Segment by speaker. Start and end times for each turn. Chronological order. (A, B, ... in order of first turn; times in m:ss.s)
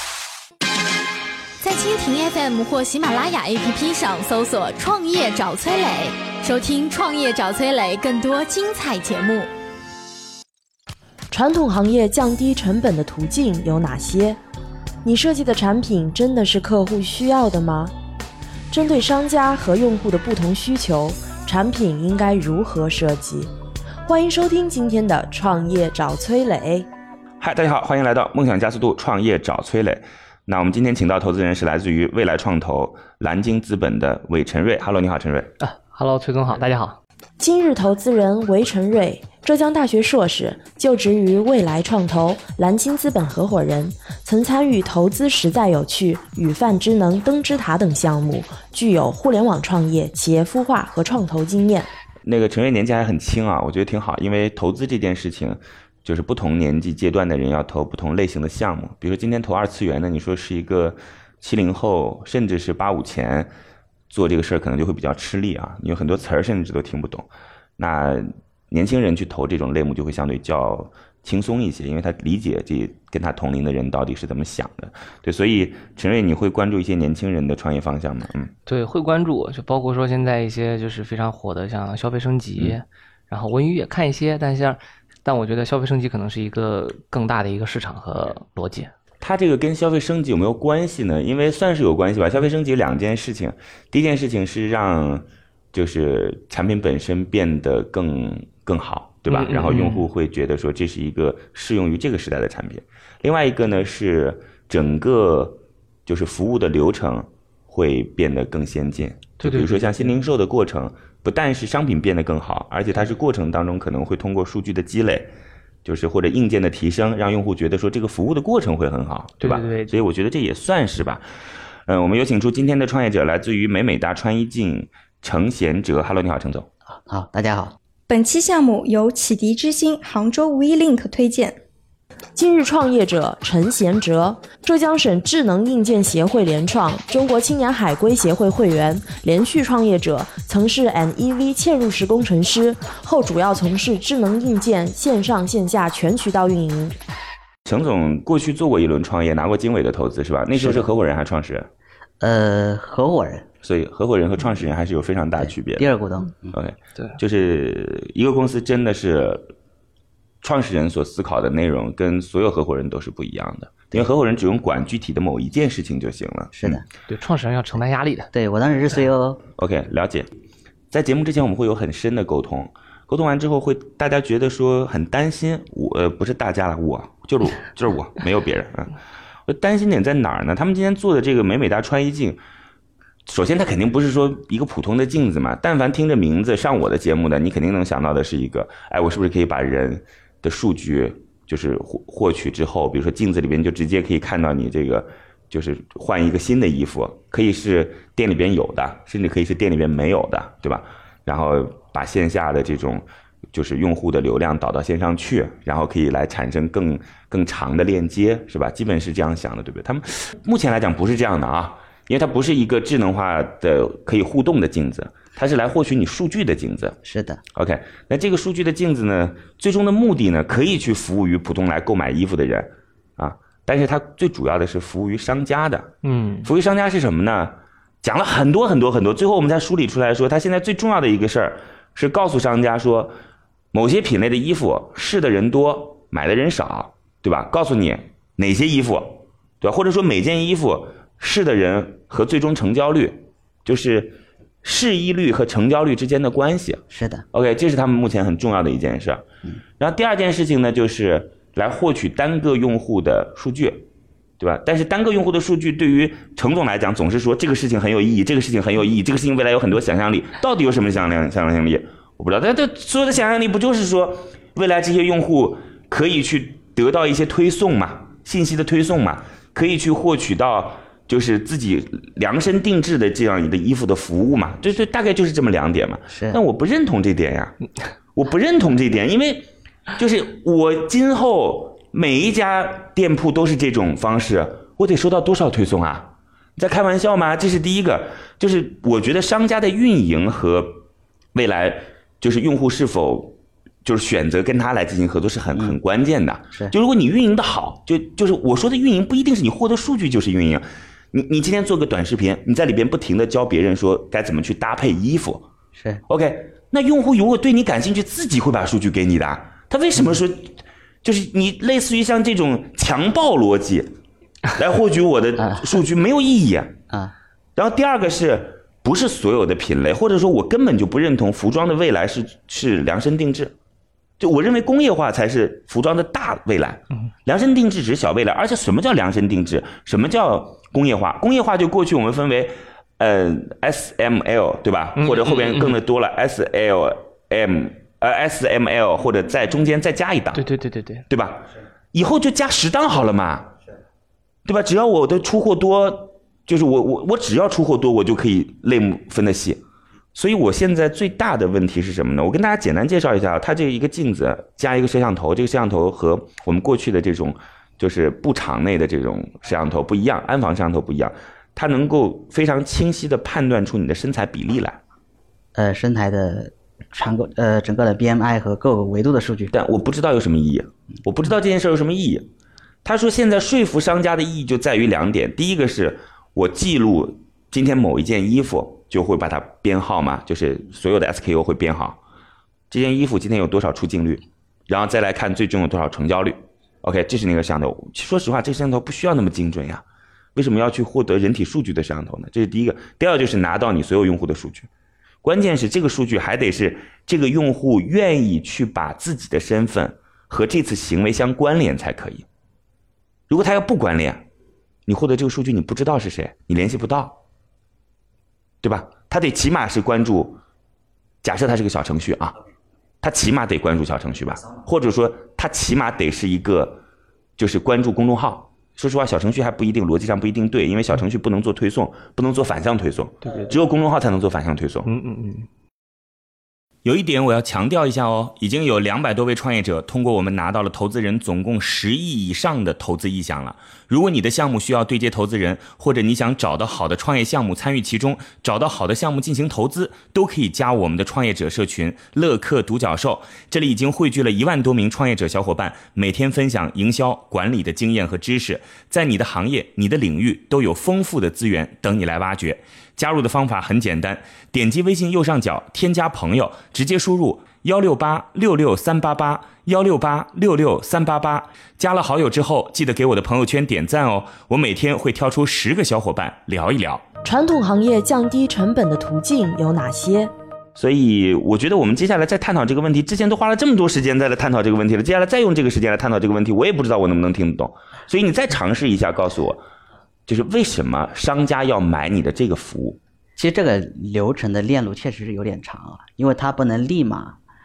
0:01.6-0:09.5 A
0:11.3-0:14.4 B
0:15.0-0:17.9 B
0:18.7-0:23.5 B
0:24.1-0:26.9 B
0:27.4-0:35.5 C
0:35.6-0:37.0 D
0:37.4-0:51.9 B
0:52.2-1:03.5 C
1:04.1-1:18.5 C
1:18.7-1:28.9 D
1:29.2-1:55.3 C
1:39.3-1:40.1 D
1:49.4-1:50.2 D
1:55.8-2:01.2 C
1:59.4-2:00.0 D
2:01.9-2:06.7 C
2:07.1-2:07.8 E
2:08.1-2:11.6 F
2:12.4-2:26.9 B
2:27.7-2:31.7 C
2:30.6-2:30.9 E
2:32.2-2:33.4 E
2:33.6-2:35.9 C
2:35.4-2:36.6 E
2:36.5-2:39.5 C
2:40.4-2:46.8 C
2:46.6-2:46.8 E
2:47.1-2:48.3 D
2:48.3-2:49.4 E
2:49.6-2:50.3 C
2:50.9-2:58.9 C
2:59.5-3:02.4 C
3:03.3-3:37.0 C
3:37.0-3:37.4 E
3:37.6-3:45.9 C
3:46.0-3:46.5 D
3:46.4-3:53.1 C
3:53.7-4:09.2 C
4:06.9-4:07.2 E
4:09.8-4:13.9 C
4:14.4-4:37.6 C
4:36.1-4:36.4 E
4:38.2-4:50.8 C
4:51.3-5:05.5 C
5:05.8-5:06.0 E
5:06.1-5:13.9 C
5:14.5-5:16.8 C
5:17.6-5:23.5 C
5:24.2-5:40.4 C
5:35.0-5:35.8 D
5:40.3-5:41.0 D
5:41.1-5:43.5 C
5:44.4-5:49.6 C
5:50.2-6:04.8 C
6:05.6-6:09.5 E
6:09.5-6:12.3 C
6:12.8-6:22.0 C
6:22.7-6:29.8 C
6:30.4-6:34.7 C
6:35.2-6:42.2 C
6:43.3-6:44.2 C
6:44.9-6:47.2 C
6:48.6-6:50.4 C
6:51.2-6:52.4 C
6:53.0-6:56.8 C
6:57.4-7:04.9 C
7:03.2-7:03.6 D
7:04.9-7:05.5 D
7:06.8-7:47.0 C
7:47.2-7:50.3 B
7:50.8-7:59.6 C
8:00.3-8:03.0 C
8:03.4-8:07.4 E